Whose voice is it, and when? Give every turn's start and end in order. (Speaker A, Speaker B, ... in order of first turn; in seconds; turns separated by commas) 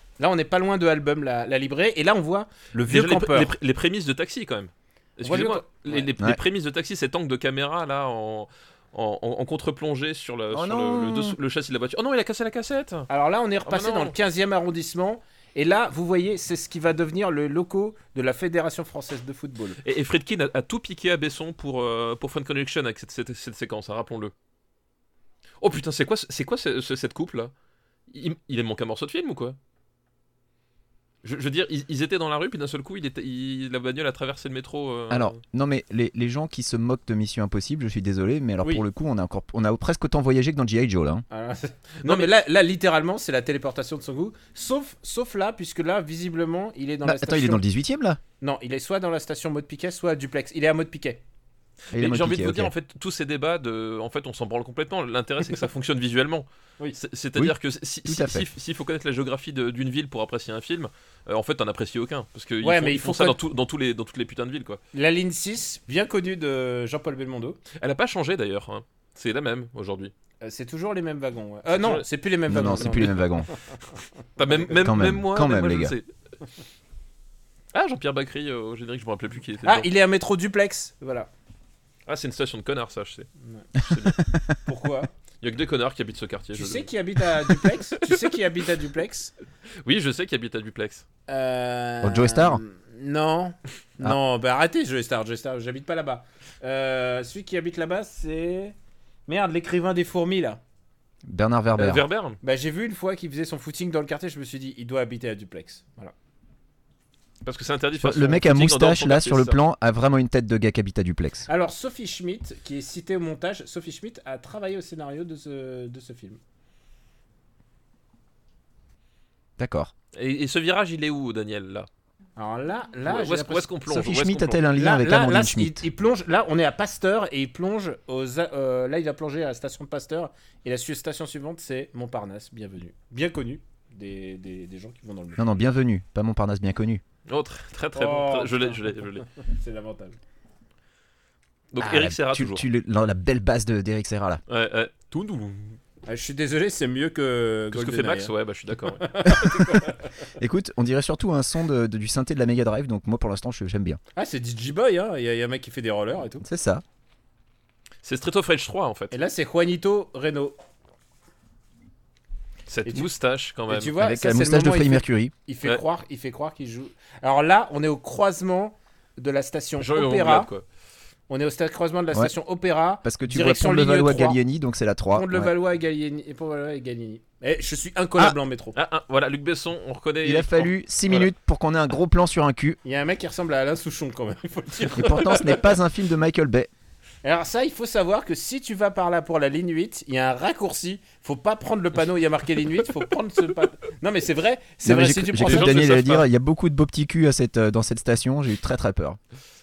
Speaker A: 0.2-3.5, Speaker B: 2.9-13.1, Speaker A: 5.2-6.1, Speaker C: 10.5-11.4, Speaker A: 13.1-19.8, Speaker B: 13.7-14.1, Speaker B: 19.8-24.3, Speaker B: 25.6-27.5, Speaker B: 28.1-29.6, Speaker B: 31.2-35.4, Speaker C: 35.1-41.2, Speaker A: 41.3-47.6, Speaker B: 42.0-42.3, Speaker C: 47.0-48.2, Speaker A: 48.4-51.2, Speaker B: 51.9-64.8, Speaker C: 51.9-52.7, Speaker C: 57.3-58.5, Speaker A: 62.6-63.4, Speaker A: 64.9-67.6, Speaker B: 67.8-70.1, Speaker A: 70.4-73.6, Speaker B: 71.7-72.0, Speaker C: 72.5-73.5, Speaker B: 74.4-76.1, Speaker C: 74.8-75.9, Speaker B: 77.7-79.9, Speaker A: 79.6-81.3, Speaker B: 82.1-84.2, Speaker A: 83.4-83.7, Speaker C: 84.3-84.5, Speaker A: 84.6-85.1, Speaker B: 85.4-88.2, Speaker A: 86.5-89.3, Speaker B: 89.8-91.1, Speaker A: 91.3-98.8, Speaker C: 92.0-92.6, Speaker A: 99.3-100.6, Speaker C: 101.2-102.1, Speaker B: 101.8-102.4, Speaker A: 102.4-106.1, Speaker B: 107.4-109.6, Speaker C: 108.0-111.5, Speaker A: 111.5-116.4, Speaker C: 119.6-119.9, Speaker B: 120.1-121.9, Speaker A: 122.4-123.7, Speaker B: 123.0-124.6, Speaker C: 123.9-125.8, Speaker A: 124.7-135.6, Speaker C: 135.4-137.0, Speaker B: 137.3-139.2, Speaker A: 137.9-140.2, Speaker B: 141.7-142.7, Speaker C: 141.8-144.4, Speaker B: 144.5-145.8, Speaker A: 146.1-150.2, Speaker B: 147.7-149.6, Speaker C: 150.4-154.0, Speaker A: 154.2-156.4, Speaker C: 156.4-156.8, Speaker B: 158.0-159.2, Speaker A: 159.1-160.6, Speaker B: 162.7-163.9, Speaker A: 163.7-170.5, Speaker C: 164.0-165.3, Speaker B: 169.8-170.7, Speaker A: 171.3-174.4, Speaker C: 173.0-175.5, Speaker A: 175.1-178.8, Speaker B: 178.8-181.3, Speaker C: 180.2-182.8, Speaker A: 182.8-185.6, Speaker C: 184.9-186.7, Speaker B: 185.0-185.5, Speaker A: 187.2-195.8, Speaker C: 194.8-199.2, Speaker B: 195.4-196.3